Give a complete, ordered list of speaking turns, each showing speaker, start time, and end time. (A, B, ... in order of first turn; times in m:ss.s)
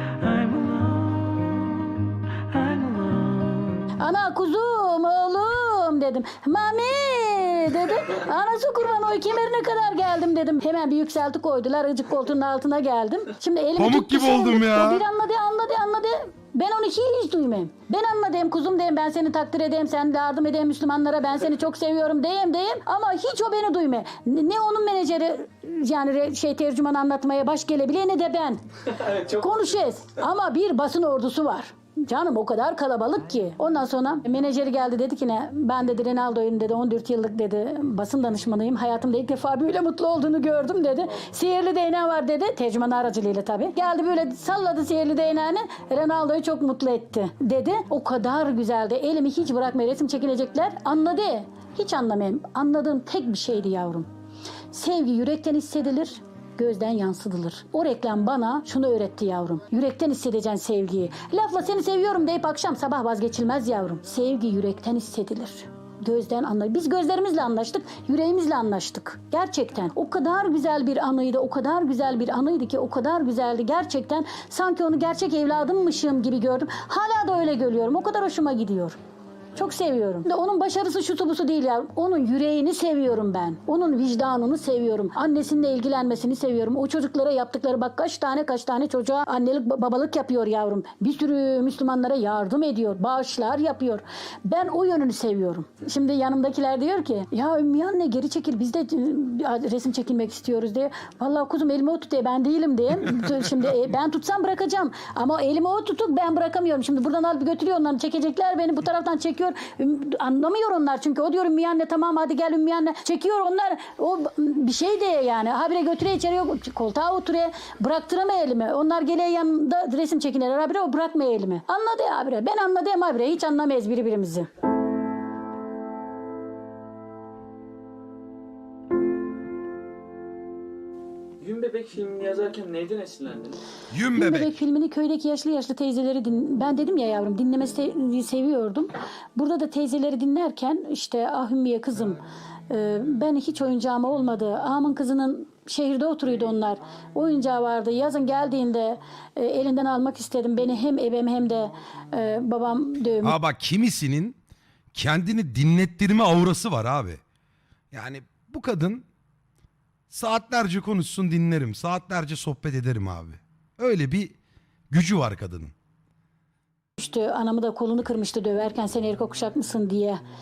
0:00.2-0:03.9 A
0:04.0-0:54.1 B
0:13.8-0:15.0 C
0:54.7-1:19.0 B
1:19.6-2:04.5 B
2:11.4-2:13.6 D
2:13.9-2:14.5 C
2:14.1-2:33.4 B
2:33.2-2:34.4 C
2:34.9-2:37.2 C
2:37.9-2:39.1 C
2:40.1-2:44.4 C
2:44.9-2:45.7 C
2:47.0-2:50.2 B